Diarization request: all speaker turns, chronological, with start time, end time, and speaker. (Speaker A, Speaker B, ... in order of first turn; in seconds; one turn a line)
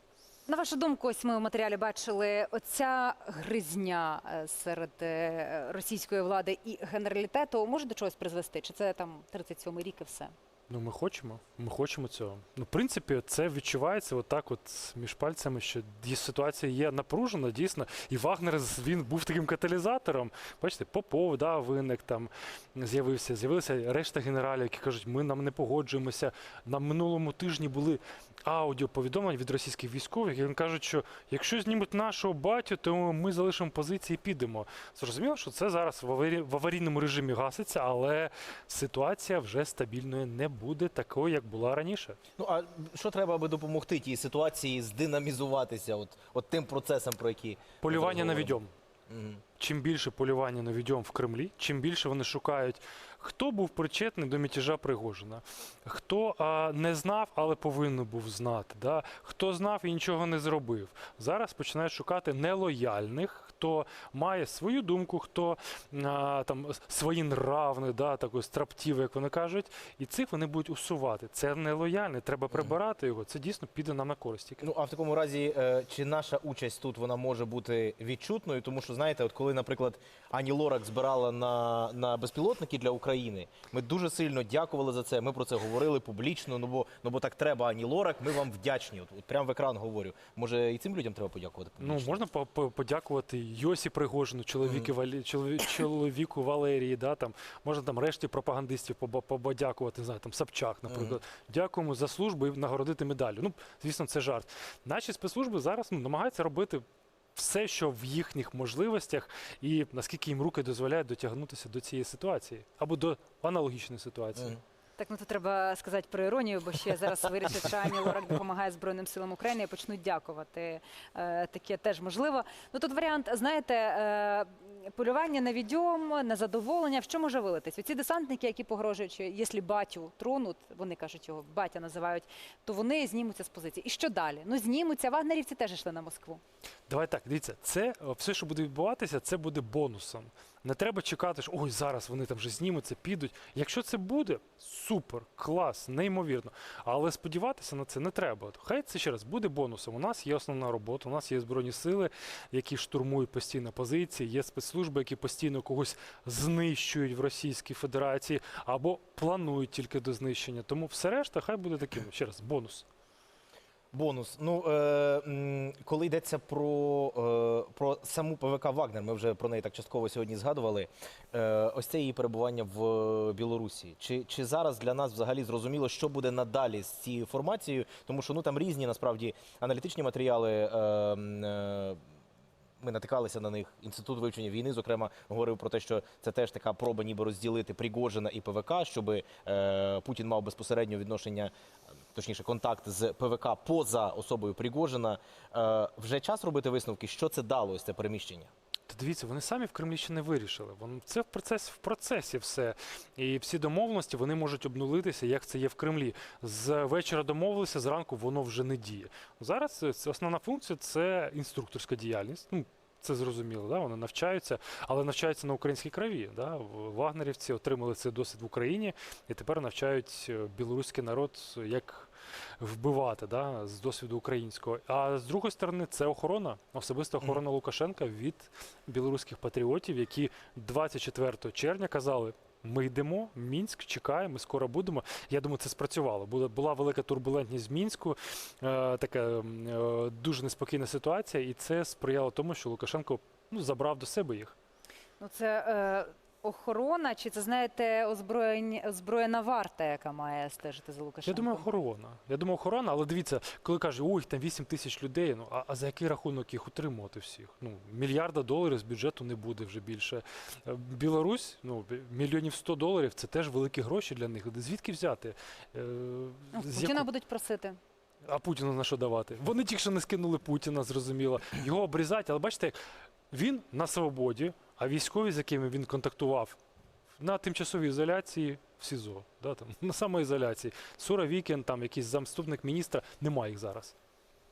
Speaker A: 0.5-10.3
Speaker B: 10.7-42.2
Speaker C: 42.4-48.6
Speaker B: 47.8-48.7
Speaker C: 49.1-49.4
Speaker B: 49.6-74.7
Speaker C: 74.6-92.2
Speaker B: 91.8-106.8
Speaker C: 94.6-94.9
Speaker C: 100.9-101.2
Speaker B: 107.4-114.6
Speaker A: 115.0-136.4
Speaker B: 136.9-162.9
Speaker C: 163.9-182.0
Speaker C: 182.8-191.5
Speaker C: 192.1-198.5
Speaker B: 198.9-244.6
Speaker A: 245.2-251.7
Speaker B: 251.3-267.1
Speaker A: 266.5-267.8
Speaker B: 268.2-272.8
Speaker B: 273.3-276.6
Speaker B: 277.2-283.9